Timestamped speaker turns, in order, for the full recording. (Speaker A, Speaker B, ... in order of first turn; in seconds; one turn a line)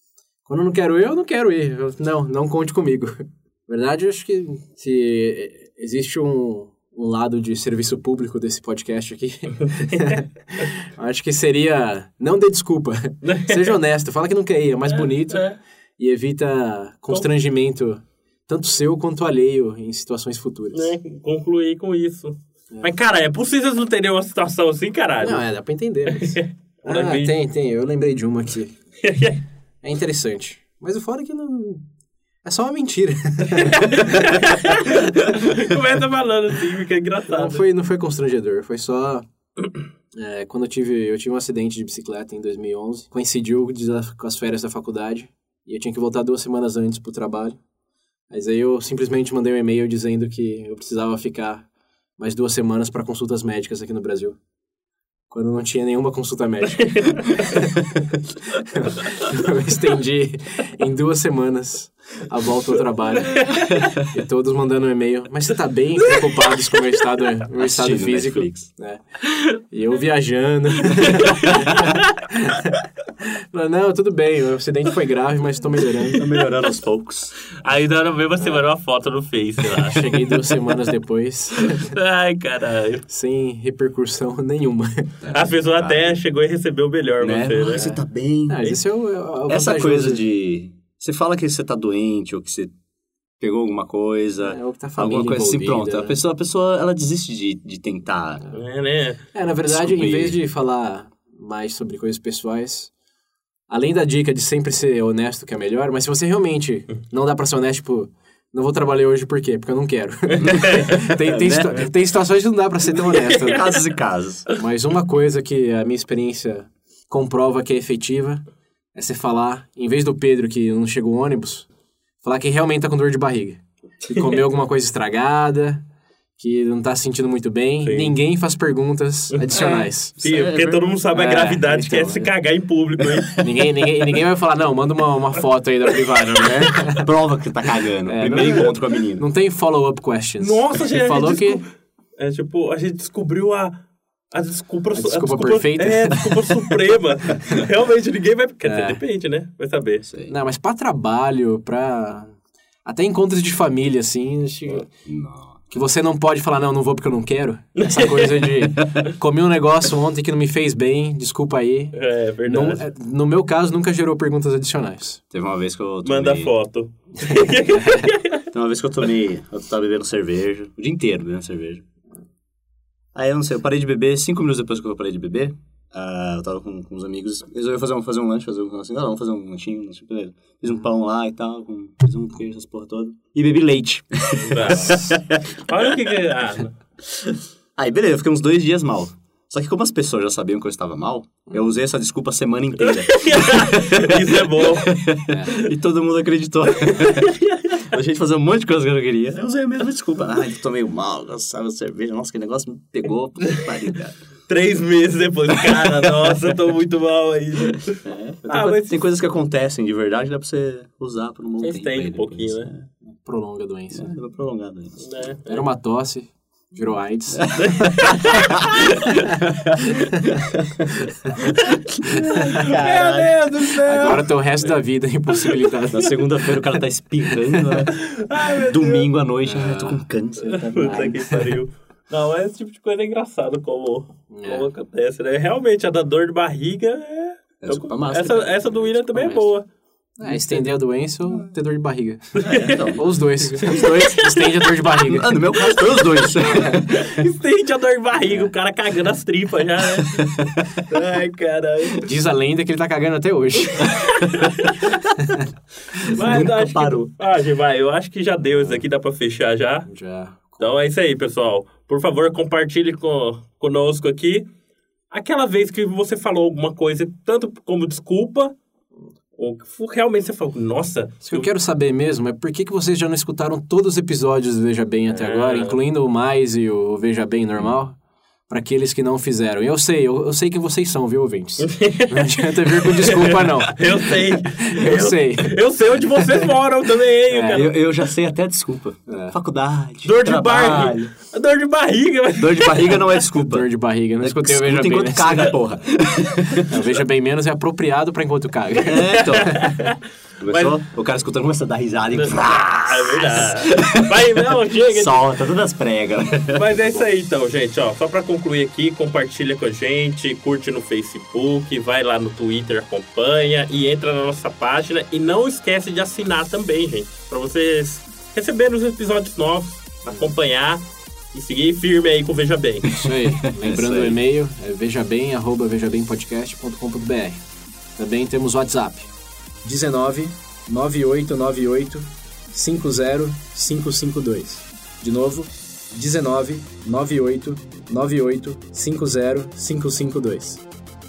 Speaker A: 0.5-21.0
Speaker B: 13.2-13.8
Speaker B: 14.9-15.6
Speaker B: 20.7-25.4
Speaker A: 25.2-28.7
Speaker B: 26.1-27.4
Speaker B: 29.0-29.4
Speaker A: 29.8-31.9
Speaker A: 32.4-34.4
Speaker B: 33.5-37.6
Speaker A: 37.3-39.3
Speaker A: 40.1-47.6
Speaker A: 48.3-54.4
Speaker A: 55.3-57.9
Speaker B: 56.8-57.3
Speaker A: 58.6-69.0
Speaker B: 63.4-63.9
Speaker B: 66.1-66.9
Speaker C: 67.5-68.7
Speaker A: 69.7-72.8
Speaker B: 70.9-72.1
Speaker A: 73.5-76.2
Speaker C: 76.2-77.3
Speaker B: 77.6-80.2
Speaker A: 79.8-81.9
Speaker B: 81.6-83.0
Speaker A: 83.1-85.3
Speaker C: 85.2-86.2
Speaker B: 85.3-88.0
Speaker C: 87.2-88.8
Speaker A: 88.5-90.2
Speaker C: 89.5-92.7
Speaker C: 93.4-98.5
Speaker A: 94.4-96.2
Speaker B: 98.5-99.2
Speaker A: 99.3-102.9
Speaker C: 99.7-100.4
Speaker A: 103.7-113.7
Speaker B: 110.4-110.8
Speaker C: 110.5-111.9
Speaker B: 113.1-114.0
Speaker C: 113.4-114.5
Speaker A: 114.5-118.4
Speaker A: 119.0-121.7
Speaker A: 122.2-125.8
Speaker A: 126.4-130.2
Speaker B: 127.8-128.2
Speaker B: 129.3-133.4
Speaker C: 129.6-130.9
Speaker A: 131.1-132.3
Speaker A: 133.4-137.1
Speaker C: 136.4-139.2
Speaker A: 138.1-141.6
Speaker B: 140.4-141.7
Speaker B: 142.2-143.8
Speaker B: 144.3-150.1
Speaker A: 144.9-146.7
Speaker A: 148.7-149.0
Speaker C: 150.0-150.3
Speaker A: 150.3-154.9
Speaker C: 155.1-155.6
Speaker A: 155.7-165.2
Speaker B: 157.8-158.6
Speaker B: 161.9-162.9
Speaker C: 165.3-166.5
Speaker B: 166.0-168.4
Speaker C: 168.5-171.8
Speaker C: 173.1-185.5
Speaker B: 184.4-186.7
Speaker C: 187.8-204.2
Speaker B: 192.8-195.0
Speaker A: 195.3-195.5
Speaker B: 196.9-197.8
Speaker B: 204.5-209.0
Speaker C: 208.1-212.8
Speaker B: 211.6-212.7
Speaker A: 213.1-214.1
Speaker C: 213.9-215.0
Speaker B: 215.0-215.7
Speaker A: 215.5-218.1
Speaker C: 217.3-217.8
Speaker B: 217.8-218.6
Speaker C: 218.5-220.5
Speaker C: 221.4-224.3
Speaker B: 222.3-224.3
Speaker A: 223.8-226.8
Speaker C: 225.9-228.0
Speaker A: 227.5-227.9
Speaker B: 227.9-229.1
Speaker C: 228.6-231.6
Speaker A: 229.4-230.0
Speaker B: 230.4-239.7
Speaker A: 234.3-234.7
Speaker C: 237.6-239.6
Speaker A: 240.2-245.8
Speaker B: 242.4-242.9
Speaker C: 242.4-244.2
Speaker B: 243.5-244.6
Speaker C: 244.9-247.0
Speaker B: 245.6-246.1
Speaker A: 246.5-246.7
Speaker B: 246.6-250.3
Speaker A: 248.2-248.5
Speaker B: 250.9-252.1
Speaker A: 252.0-254.0
Speaker B: 253.8-255.0
Speaker B: 256.1-259.9
Speaker C: 256.2-257.1
Speaker A: 258.5-258.8
Speaker A: 259.9-260.7
Speaker B: 260.6-264.5
Speaker B: 265.1-268.6
Speaker B: 269.4-271.5
Speaker A: 271.2-285.6
Speaker B: 275.1-275.8
Speaker B: 281.6-282.2
Speaker B: 282.9-287.7
Speaker A: 287.3-287.7
Speaker C: 287.5-291.1
Speaker A: 289.1-289.4
Speaker B: 290.1-293.2
Speaker C: 292.4-296.8
Speaker A: 293.4-295.6
Speaker A: 296.6-299.6
Speaker C: 298.9-299.7
Speaker B: 299.2-300.0
Speaker C: 300.4-303.9
Speaker B: 300.5-300.8
Speaker B: 302.1-305.3
Speaker C: 304.9-307.0
Speaker B: 306.6-322.9
Speaker A: 322.9-327.4
Speaker C: 323.1-324.2
Speaker A: 328.0-329.1
Speaker A: 329.6-340.6